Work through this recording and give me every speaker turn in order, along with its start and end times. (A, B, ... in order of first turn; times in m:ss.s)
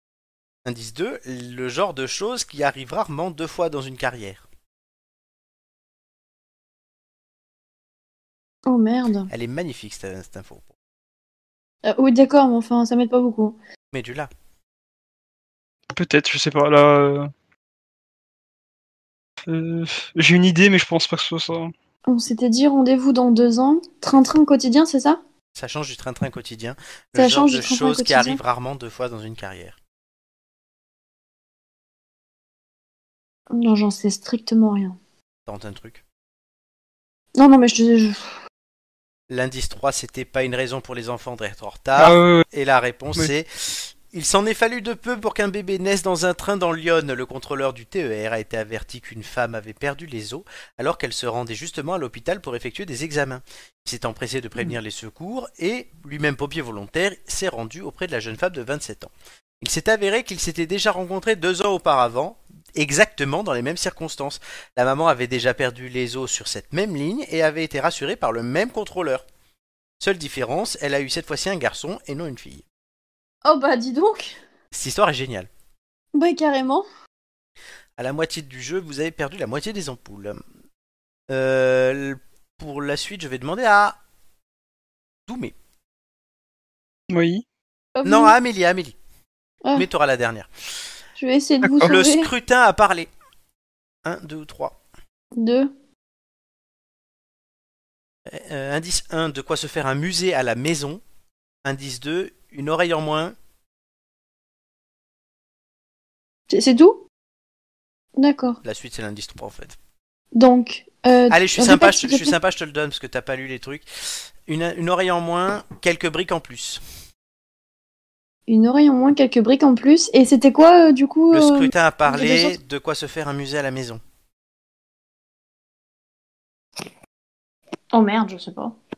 0:00.6-0:04.4 A
0:08.7-0:09.3 B
0:09.3-0:10.7 A
0:11.8-0:13.6 B
0:13.9-0:14.3 A
0:15.9-0:17.3 C
0:19.5-0:21.7 C
0:22.1-0:25.2 B
0:25.5-0:29.8 A
0:27.2-0:28.4 B
0:33.5-0:35.0 B
0:35.5-0:36.0 A
0:37.4-0:38.2 B
0:39.3-1:09.2 A
0:42.0-0:42.4 C
1:10.0-1:12.6 A
1:13.4-1:14.4 B
1:14.7-1:15.5 A
1:16.1-1:16.8 B
1:18.0-1:20.4 A
1:21.3-1:24.0 A
1:25.3-1:25.5 A
1:27.1-1:27.4 C
1:28.0-1:28.3 B
1:28.0-1:29.0 A
1:29.7-1:30.5 A
1:31.2-1:32.3 B
1:31.6-1:31.9 C
1:31.8-1:33.1 A
1:34.0-1:34.8 A
1:35.4-1:35.7 B
1:38.2-1:41.0 A
1:41.6-1:43.3 A
1:46.5-1:47.0 B
1:48.2-1:48.6 B
1:48.6-1:49.8 A
1:50.3-1:52.3 B
1:51.3-1:56.8 A
1:58.5-2:02.6 B
2:01.3-2:04.0 A
2:07.9-2:08.7 B